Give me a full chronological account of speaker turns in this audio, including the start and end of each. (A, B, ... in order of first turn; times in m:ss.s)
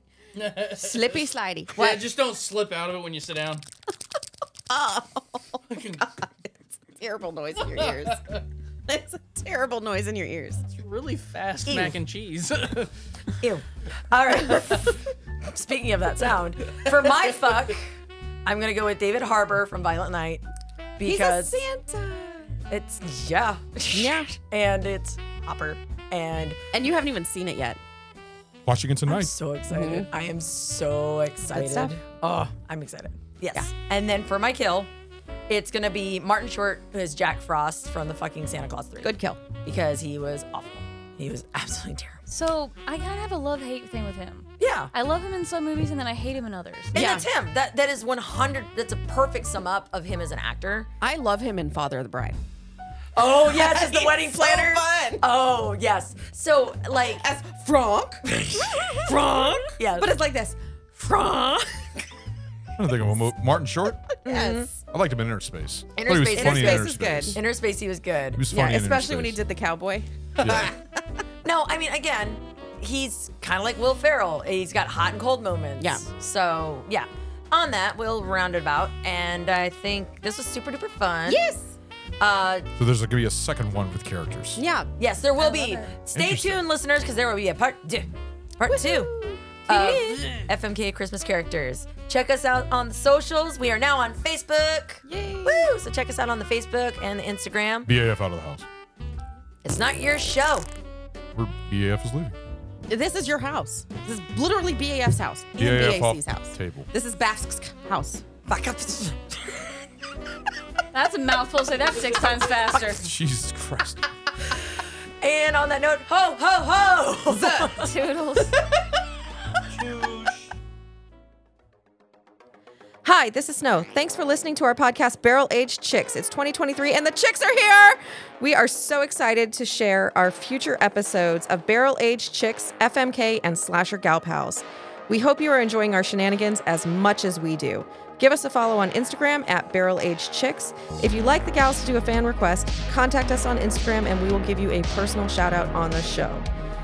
0:00.4-0:01.1 A
0:00.7-0:02.0 B
0:01.7-0:03.6 A
0:04.7-0:10.6 B
0:05.7-0:06.1 A
0:07.6-0:08.2 A
0:10.7-0:12.9 A
0:11.7-0:12.0 C
0:13.4-0:17.9 C
0:18.4-0:20.4 C
0:21.0-0:21.6 C
0:21.0-0:22.5 B
0:22.7-0:26.6 C
0:23.9-0:24.3 B
0:26.7-0:27.8 B
0:28.7-0:29.3 D
0:29.1-0:34.9 C
0:29.7-0:30.1 B
0:31.5-0:32.0 B
0:35.5-0:42.3 C
0:39.0-0:39.4 B
0:42.3-0:47.0 E
0:44.6-0:44.9 C
0:46.9-0:50.9 C
0:46.9-0:47.3 B
0:51.0-0:52.4 B
0:53.2-0:57.3 C
0:53.4-0:55.2 B
0:57.1-0:58.2 B
0:58.3-1:00.1 C
0:59.1-1:02.0 B
1:02.8-1:04.1 D
1:04.2-1:04.7 C
1:04.2-1:04.8 B
1:04.9-1:07.4 D
1:06.0-1:08.4 C
1:06.3-1:07.4 B
1:08.4-1:09.4 D
1:08.5-1:10.9 B
1:10.4-1:10.7 D
1:11.4-1:21.4 C
1:15.8-1:16.1 B
1:21.3-1:21.8 B
1:22.2-1:22.7 C
1:22.8-1:24.6 D
1:24.6-1:24.9 B
1:25.0-1:29.1 C
1:26.2-1:26.6 D
1:28.7-1:29.6 B
1:29.7-1:30.5 A
1:29.7-1:37.9 C
1:35.1-1:35.7 B
1:37.9-1:38.7 D
1:39.6-1:40.7 C
1:41.4-1:42.4 D
1:42.9-1:48.2 B
1:45.6-1:46.9 D
1:48.5-1:49.7 C
1:50.9-1:53.1 E
1:53.0-1:54.0 D
1:55.2-1:57.9 C
1:57.3-1:57.8 B
1:57.8-1:58.6 E
1:58.4-1:59.0 B
1:59.8-2:00.5 A
2:03.0-2:26.5 B